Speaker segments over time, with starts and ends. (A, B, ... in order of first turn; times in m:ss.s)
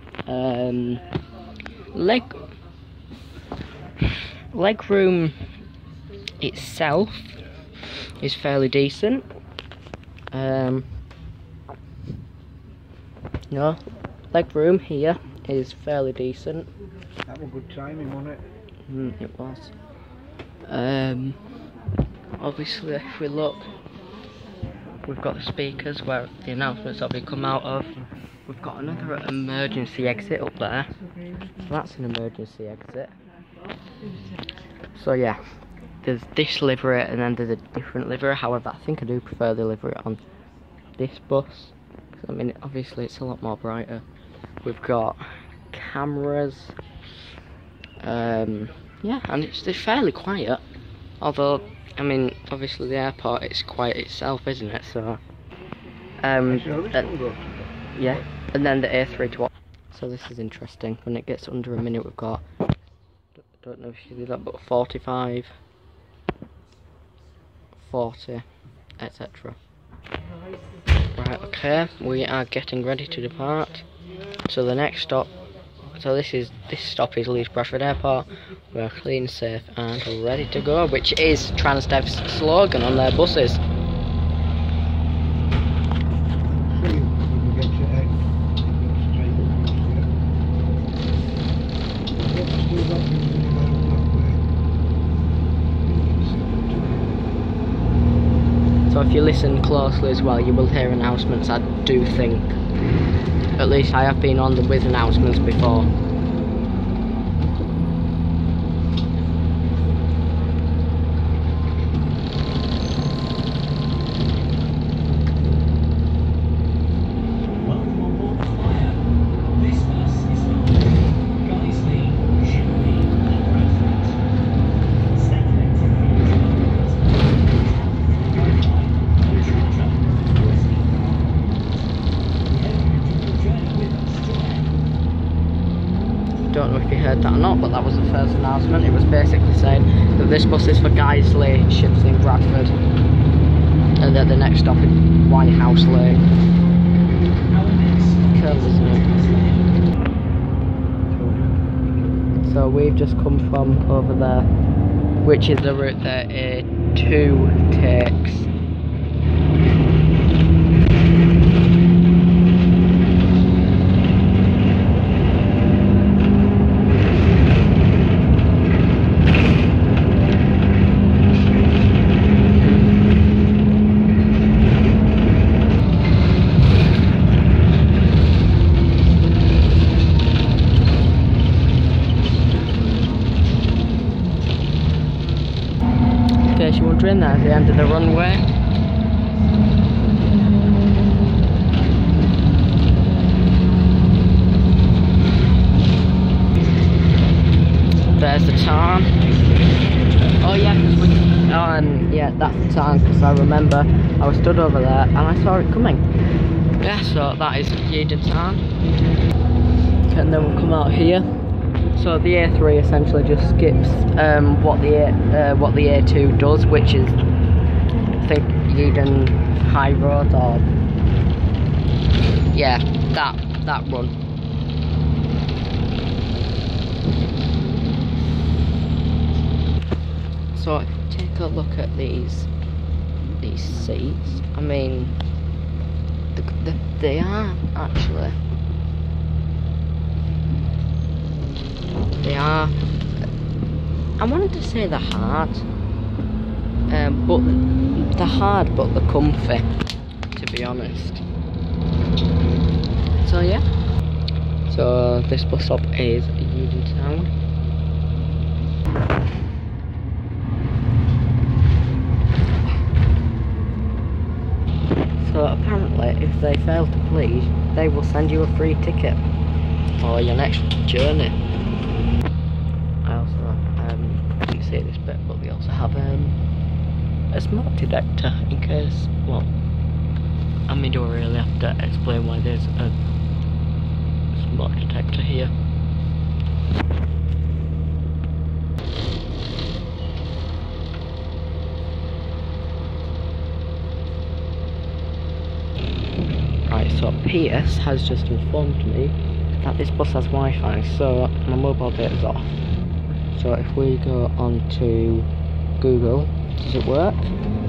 0:00.2-0:01.0 A
0:01.9-0:02.3 A
0:04.5-0:05.3 A
0:06.4-0:07.3 A
0:08.2-0:09.2 A
0:10.3-0:10.9 A
0:13.5-0:13.8 A
0:14.3-0:16.7 A
0:17.2-0:18.4 B
0:18.9-0:19.7 A
0:20.6-0:21.4 A
0:22.4-0:23.7 A
0:25.0-0:31.0 A
0:31.6-0:33.1 A
0:34.9-0:35.4 A
0:36.0-0:40.2 A
0:41.0-0:44.0 A
0:44.6-0:46.8 A
0:48.0-0:50.6 A
0:51.2-0:55.2 A
0:56.2-0:57.1 A
0:56.5-0:57.7 B
0:57.9-1:02.4 A
1:03.4-1:05.5 A
1:07.8-1:08.4 A
1:09.0-1:09.6 A
1:11.1-1:13.8 A
1:14.5-1:15.3 A
1:16.0-1:23.6 A
1:26.6-1:30.1 B
1:32.2-1:34.4 B
1:36.0-1:37.1 B
1:38.9-1:42.5 A
1:43.6-1:45.9 A
1:57.6-2:04.2 C
2:05.1-2:11.5 C
2:12.4-2:14.8 C
2:16.5-2:22.7 A
2:24.0-2:26.3 A
2:27.5-2:29.7 C
2:28.3-2:29.0 A
2:31.1-2:31.6 B
2:32.4-2:34.5 A
2:35.2-2:38.5 A
3:06.5-3:08.4 A
3:18.2-3:19.1 A
3:19.2-3:21.4 C
3:20.4-3:26.0 A
3:26.8-3:28.6 A
3:30.0-3:31.2 A
3:32.0-3:37.2 A
3:38.2-3:40.6 A
3:42.5-3:44.1 A
3:50.5-3:52.5 A
3:53.4-3:55.2 A
3:56.3-3:58.3 A
4:02.2-4:02.8 A
4:04.2-4:05.6 A
4:06.9-4:09.7 A
4:10.3-4:11.2 A
4:12.4-4:12.6 B
4:13.2-4:13.6 A
4:14.7-4:17.3 A
4:25.2-4:29.2 A
4:30.0-4:31.4 A
4:33.0-4:36.4 A
4:37.3-4:39.5 A
4:40.7-4:43.0 A
4:44.3-4:45.5 A
4:56.7-5:02.6 A
5:03.3-5:05.3 A
5:05.8-5:07.3 A